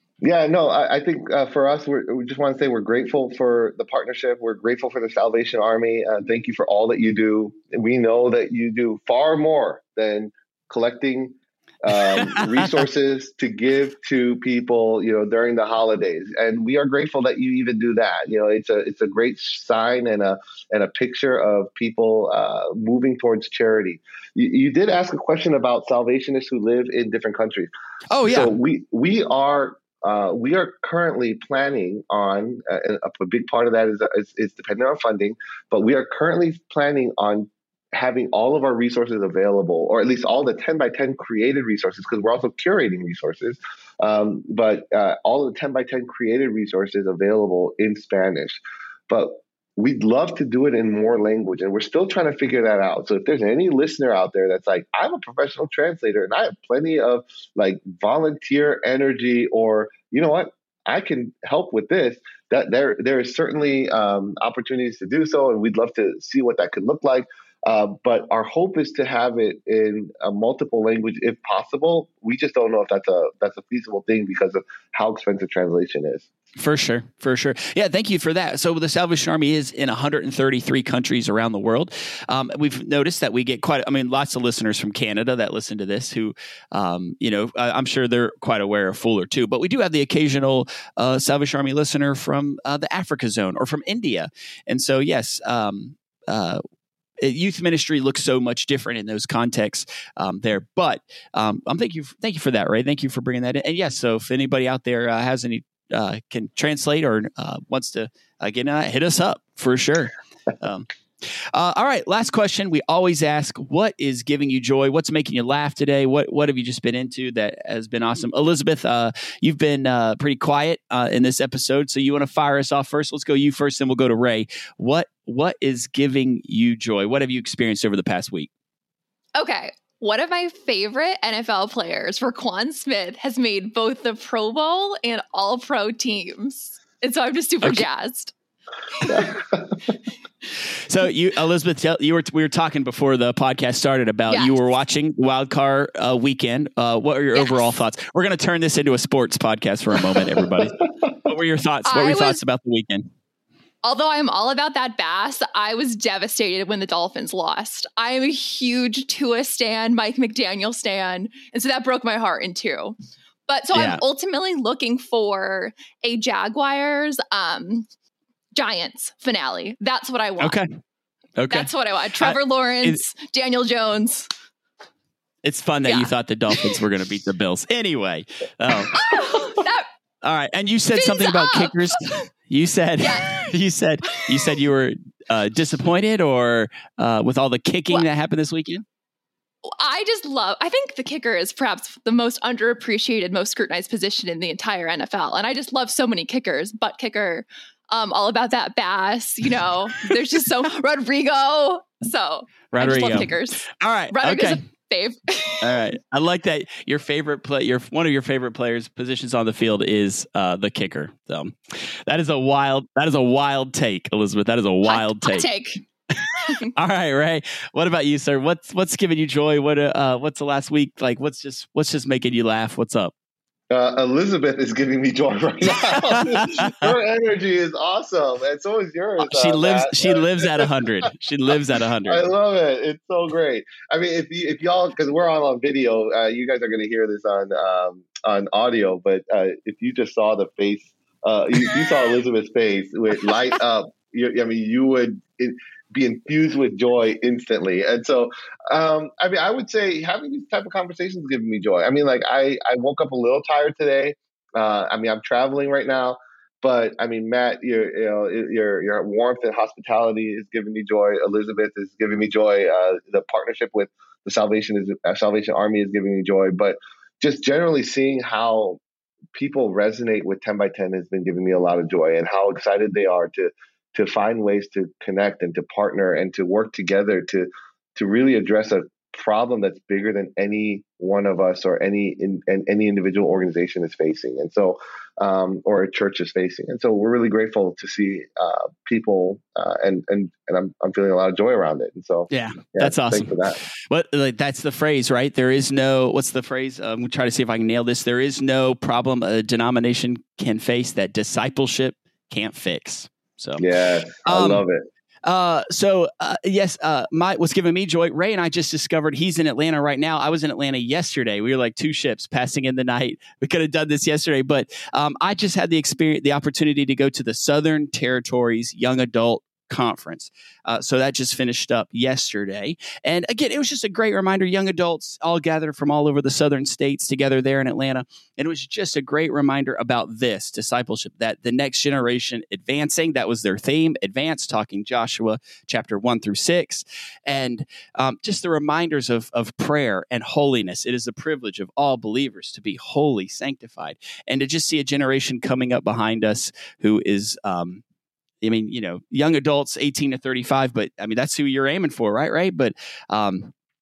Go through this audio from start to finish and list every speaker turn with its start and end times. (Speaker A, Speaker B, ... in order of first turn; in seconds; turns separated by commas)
Speaker A: 0.2-27.7, Speaker B: 12.1-12.4, Speaker B: 28.1-28.5, Speaker A: 28.3-76.3, Speaker B: 76.5-96.6, Speaker B: 97.2-110.9, Speaker B: 111.5-128.5, Speaker C: 129.3-138.3, Speaker C: 138.9-139.3, Speaker A: 139.1-139.7, Speaker B: 140.9-153.1, Speaker C: 144.3-144.6, Speaker C: 147.3-147.7, Speaker C: 151.8-152.4, Speaker C: 153.8-163.0, Speaker C: 163.5-167.9, Speaker B: 163.7-164.0, Speaker C: 168.5-170.6, Speaker B: 170.4-170.7, Speaker B: 171.4-171.7, Speaker C: 171.5-174.3, Speaker B: 172.2-173.0, Speaker B: 175.4-179.1, Speaker C: 175.8-176.8, Speaker C: 178.8-179.8, Speaker B: 180.2-188.8, Speaker C: 180.9-182.2, Speaker C: 183.0-183.5, Speaker C: 189.7-205.8, Speaker B: 202.7-204.6, Speaker B: 205.6-215.5, Speaker C: 214.8-215.8, Speaker B: 216.2-223.1, Speaker A: 223.7-230.7, Speaker B: 225.8-226.9, Speaker B: 229.2-232.2, Speaker A: 232.1-268.8, Speaker A: 269.3-293.6, Speaker B: 292.3-303.6, Speaker A: 303.6-304.8, Speaker B: 304.2-304.6, Speaker B: 305.2-347.8, Speaker B: 348.4-353.5